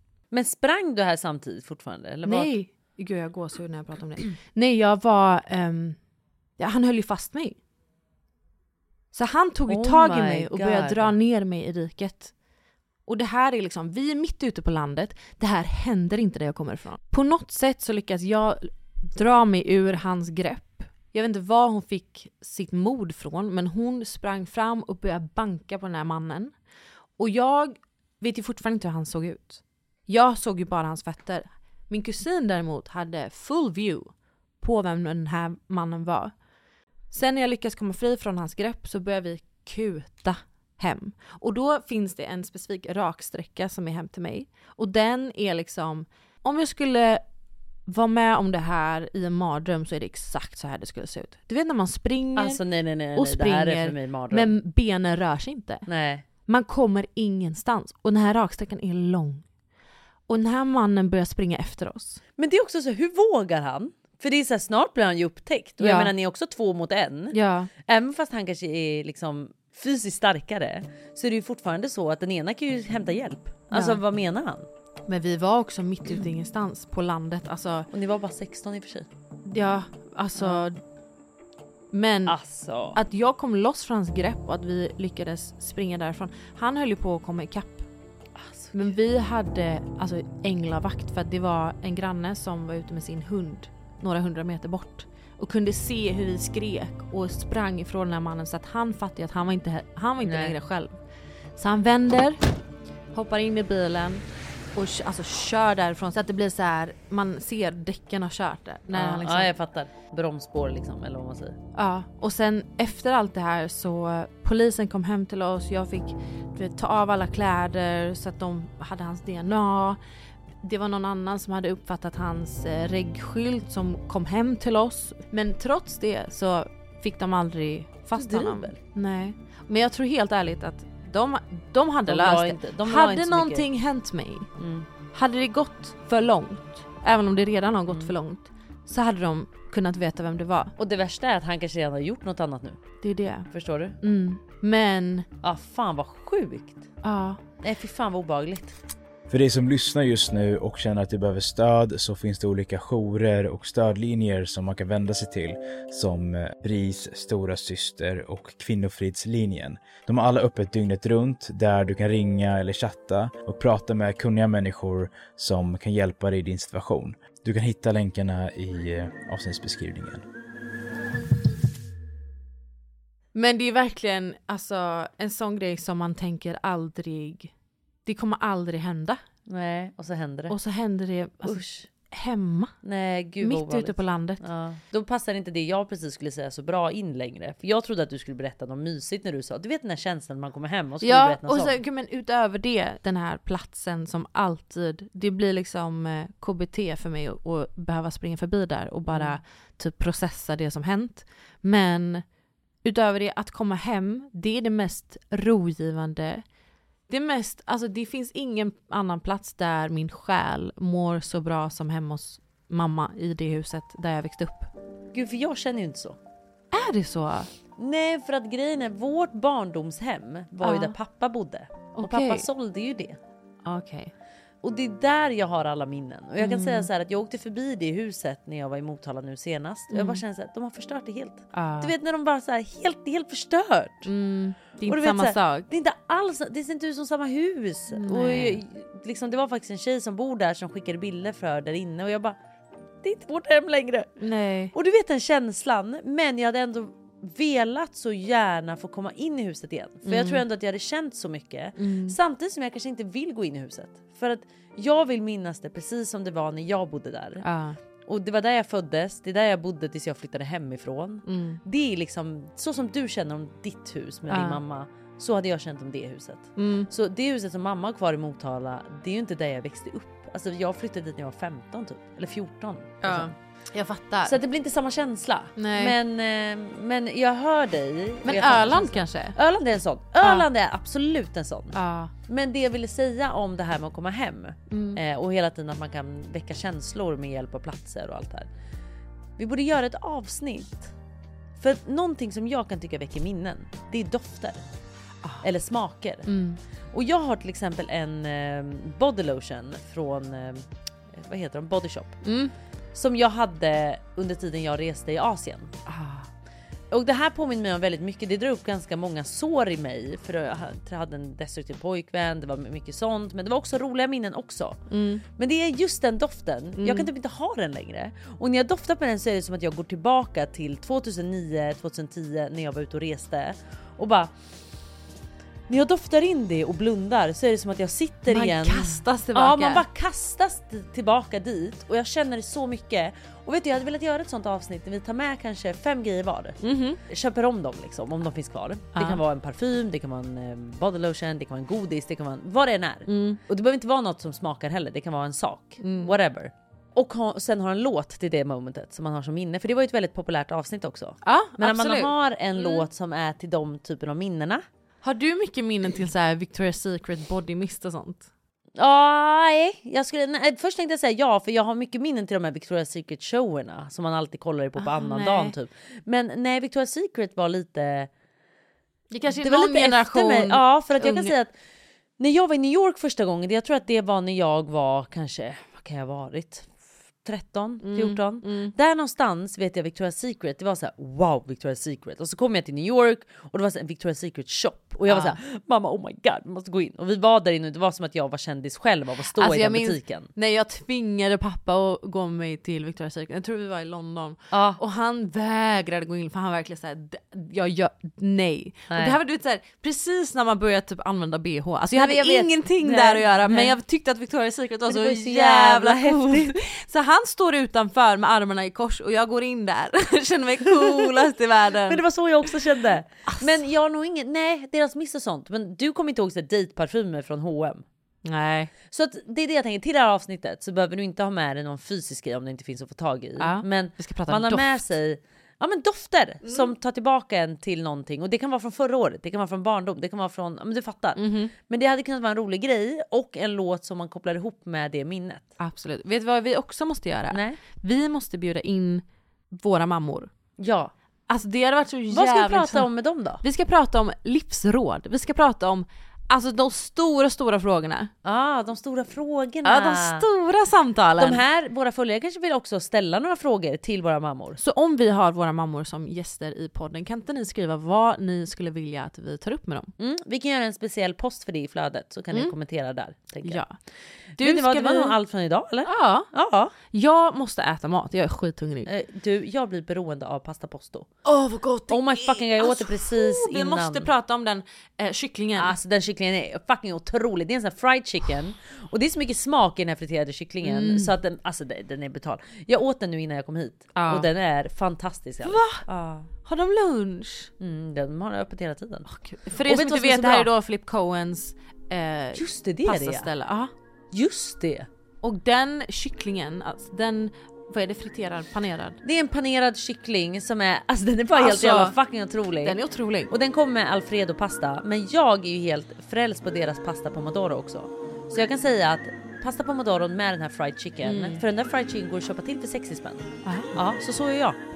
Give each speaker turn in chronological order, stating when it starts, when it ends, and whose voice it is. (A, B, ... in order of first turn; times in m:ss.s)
0:00.3-0:02.5 A
0:02.2-0:06.0 B
0:06.6-0:07.6 B
0:09.1-0:12.3 B
0:09.7-0:11.2 A
0:13.1-0:26.5 B
0:27.2-0:34.1 B
0:34.6-0:36.3 B
0:37.1-0:47.2 B
0:47.9-0:52.6 B
0:52.4-0:54.5 A
0:53.2-0:55.9 B
0:55.9-0:56.2 A
0:56.5-0:59.4 B
1:00.3-1:02.2 B
1:02.4-1:14.7 A
1:05.8-1:06.1 B
1:07.3-1:07.7 B
1:13.7-1:14.0 B
1:15.1-1:17.9 B
1:17.9-1:19.1 A
1:19.5-1:20.8 B
1:20.4-1:20.7 A
1:21.9-1:22.4 B
1:22.3-1:23.0 A
1:22.9-1:27.9 B
1:28.4-1:28.8 A
1:28.7-1:40.9 B
1:40.2-1:40.6 A
1:41.6-1:42.4 B
1:43.1-1:44.2 B
1:44.8-1:49.5 B
1:49.0-1:51.6 A
1:51.8-2:00.0 B
2:00.6-2:14.5 B
2:08.2-2:08.8 A
2:12.1-2:13.7 A
2:14.6-2:14.9 A
2:15.1-2:20.7 B
2:17.9-2:18.1 A
2:20.8-2:22.8 A
2:23.0-2:25.3 B
2:23.5-2:24.0 A
2:25.4-2:26.9 A
2:27.0-2:27.4 B
2:27.6-2:28.8 A
2:29.3-2:50.2 C
2:53.3-2:57.5 B
2:58.0-2:59.2 B
2:59.5-3:00.6 A
3:00.5-3:02.8 B
3:01.4-3:01.9 A
3:02.8-3:11.8 A
3:03.4-3:04.4 B
3:11.0-3:22.2 B
3:19.1-3:19.4 A
3:22.8-3:26.4 B
3:27.1-3:34.7 B
3:35.1-3:36.2 A
3:36.7-3:37.5 B
3:37.8-3:43.2 A
3:40.6-3:41.0 B
3:42.0-3:42.5 B
3:43.6-3:44.1 B
3:44.6-3:54.1 A
3:46.4-3:46.9 B
3:49.9-3:50.2 B
3:51.5-3:51.9 B
3:54.1-3:55.7 B
3:54.9-4:02.4 A
3:57.9-3:58.6 B
4:03.0-4:04.1 A
4:04.2-4:04.7 B
4:04.7-4:17.4 A
4:10.1-4:10.4 B
4:11.8-4:12.2 B
4:17.4-4:17.8 B
4:18.1-4:33.3 A
4:21.3-4:21.6 B
4:24.3-4:24.6 B
4:26.6-4:26.9 B
4:33.0-4:34.4 B
4:34.2-4:41.8 A
4:35.6-4:36.0 B
4:38.2-4:39.4 B
4:41.7-4:42.1 B
4:42.3-4:48.5 A
4:44.7-4:45.0 B
4:49.4-4:50.9 A
4:51.6-4:54.6 A
4:55.4-4:56.3 A
4:56.3-4:56.6 B
4:56.9-5:02.2 A
5:02.2-5:02.5 B
5:02.9-5:05.7 A
5:05.9-5:06.3 B
5:06.9-5:14.8 A
5:14.9-5:15.2 B
5:15.4-5:24.3 A
5:16.8-5:17.1 B
5:25.7-5:54.6 A
5:28.3-5:29.8 B
5:36.6-5:37.0 B
5:39.0-5:39.2 B
5:43.1-5:43.4 B
5:45.8-5:46.2 B
5:51.2-5:52.9 B
5:55.0-5:58.3 B
5:58.8-6:08.1 A
6:04.8-6:05.6 B
6:09.1-6:11.3 B
6:09.3-6:11.5 A
6:12.2-6:16.7 A
6:17.2-6:30.3 A
6:17.8-6:18.7 B
6:25.1-6:25.4 B
6:29.3-6:52.0 B
6:34.5-6:34.8 A
6:38.9-6:39.2 A
6:42.0-6:43.7 A
6:44.9-6:46.6 A
6:50.7-6:51.3 A
6:51.9-6:57.8 A
6:53.3-6:53.6 B
6:58.2-6:58.7 B
6:58.9-7:15.5 A
7:03.4-7:04.8 B
7:06.4-7:06.7 B
7:11.2-7:11.5 B
7:15.6-7:20.3 B
7:17.3-7:17.6 A
7:20.6-7:20.9 A
7:21.3-7:22.9 B
7:22.1-7:23.4 A
7:23.4-7:28.1 B
7:28.2-7:30.3 A
7:29.6-7:31.4 B
7:31.2-7:34.6 A
7:34.6-7:39.9 B
7:40.0-7:43.6 A
7:43.4-7:43.7 B
7:44.4-7:46.7 A
7:44.4-7:45.2 B
7:45.9-7:46.3 B
7:46.9-7:48.9 B
7:48.9-7:51.1 A
7:51.2-7:55.7 B
7:51.9-7:54.1 A
7:55.6-8:06.3 A
8:00.6-8:01.1 B
8:04.0-8:04.3 B
8:05.4-8:05.8 B
8:06.4-8:07.5 B
8:07.6-8:09.1 A
8:09.1-8:13.7 B
8:09.6-8:10.5 A
8:12.3-8:13.3 A
8:14.1-8:14.9 A
8:15.2-8:19.0 B
8:19.0-8:22.8 A
8:21.4-8:22.0 B
8:22.6-8:23.3 B
8:23.3-8:34.6 A
8:31.0-8:31.4 B
8:33.4-8:33.8 B